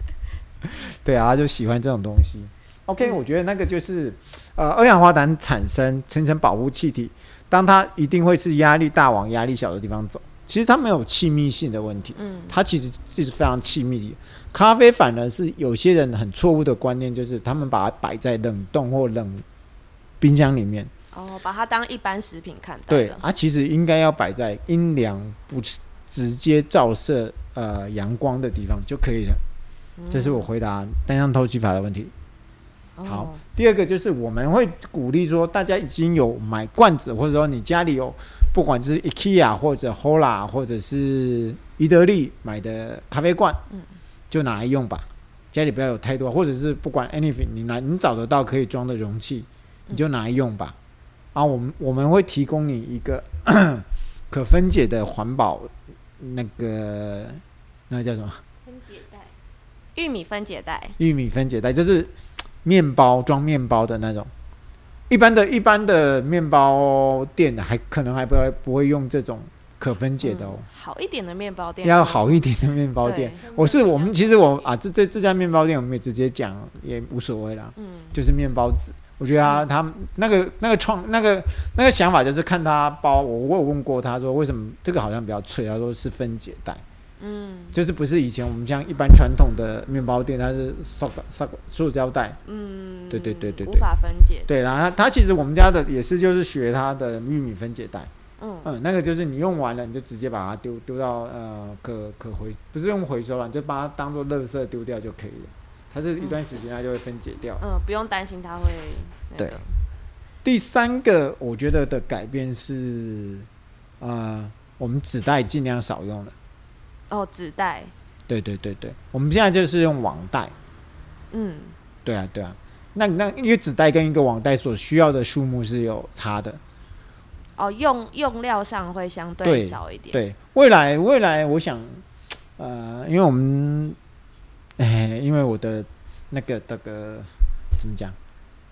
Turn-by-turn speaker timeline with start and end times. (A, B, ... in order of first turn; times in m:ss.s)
0:00.6-0:19.4 A
0:12.2-0:12.6 B
0:20.2-0:20.9 A
0:21.1-0:23.2 B
0:22.9-0:29.4 A
0:30.0-0:30.5 B
0:30.1-0:32.1 A
0:33.0-0:33.4 B
0:33.1-0:43.6 A
0:44.3-0:50.8 A
0:51.3-0:58.4 A
0:58.6-0:59.3 C
1:00.0-1:01.0 B
1:01.0-1:02.1 A
1:02.6-1:04.3 A
1:05.1-1:10.7 A
1:10.2-1:12.3 B
1:11.8-1:26.8 A
1:13.0-1:13.4 B
1:13.4-1:14.8 C
1:17.8-1:18.1 B
1:27.2-1:27.8 B
1:27.7-1:32.4 A
1:32.4-1:34.5 B
1:33.1-1:33.9 A
1:34.5-1:38.1 A
1:38.4-1:38.7 B
1:38.6-1:47.6 A
1:47.6-1:49.7 B
1:50.4-1:53.5 A
1:54.0-1:56.3 A
1:57.1-1:57.9 B
1:58.3-2:00.5 A
2:01.3-2:01.8 B
2:02.0-2:06.6 A
2:07.6-2:10.2 B
2:09.4-2:12.0 A
2:12.6-2:14.0 A
2:14.8-2:18.2 A